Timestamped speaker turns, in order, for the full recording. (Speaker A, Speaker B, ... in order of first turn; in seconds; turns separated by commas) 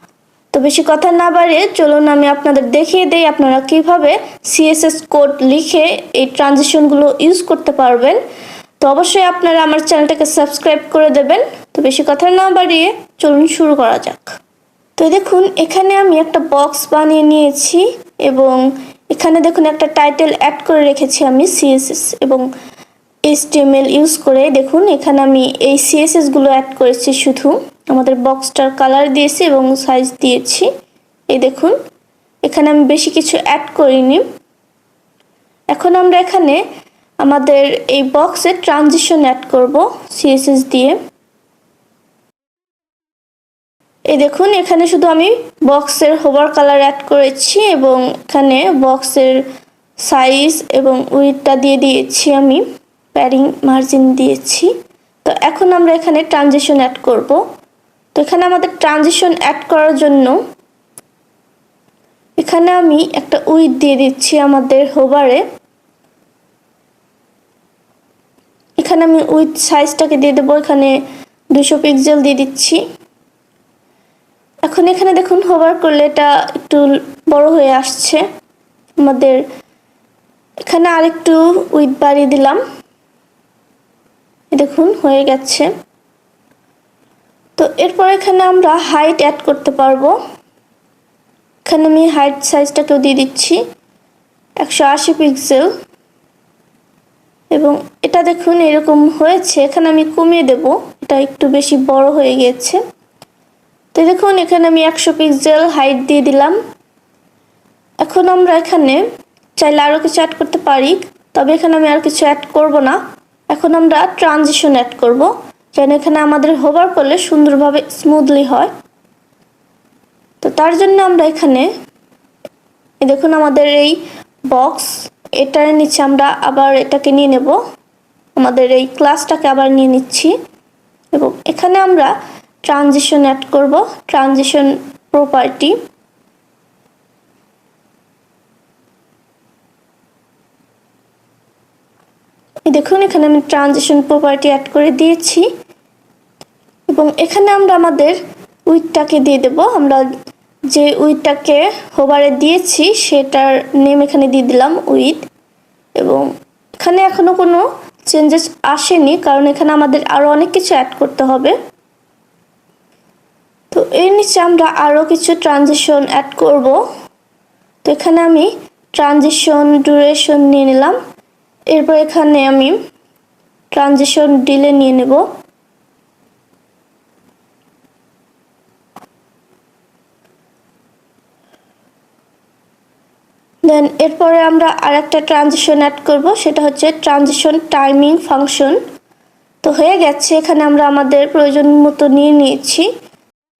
Speaker A: 0.5-8.2, Speaker A: 8.8-14.4, Speaker A: 15.0-22.4, Speaker A: 23.3-30.7, Speaker A: 31.3-31.8, Speaker A: 32.4-34.2, Speaker A: 35.7-36.6, Speaker A: 37.2-41.0, Speaker A: 44.1-49.4, Speaker A: 50.0-54.7, Speaker A: 55.2-57.4, Speaker A: 58.1-60.4, Speaker A: 62.4-65.4, Speaker A: 68.8-70.9, Speaker A: 71.5-72.8, Speaker A: 74.6-78.2, Speaker A: 79.0-79.4, Speaker A: 80.6-82.6, Speaker A: 84.5-85.7, Speaker A: 87.6-90.1, Speaker A: 91.6-93.6, Speaker A: 94.6-95.7, Speaker A: 97.5-102.8, Speaker A: 103.9-106.5, Speaker A: 108.0-109.0, Speaker A: 109.6-118.7, Speaker A: 120.4-121.7, Speaker A: 123.0-127.6, Speaker A: 128.3-130.3, Speaker A: 131.1-132.1, Speaker A: 132.6-135.8, Speaker A: 142.7-145.5, Speaker A: 146.9-150.0, Speaker A: 150.7-155.2, Speaker A: 156.0-156.2, Speaker A: 156.8-161.6, Speaker A: 163.7-166.8, Speaker A: 167.8-171.0, Speaker A: 171.7-172.8, Speaker A: 173.7-175.2, Speaker A: 183.6-188.8, Speaker A: 189.6-192.9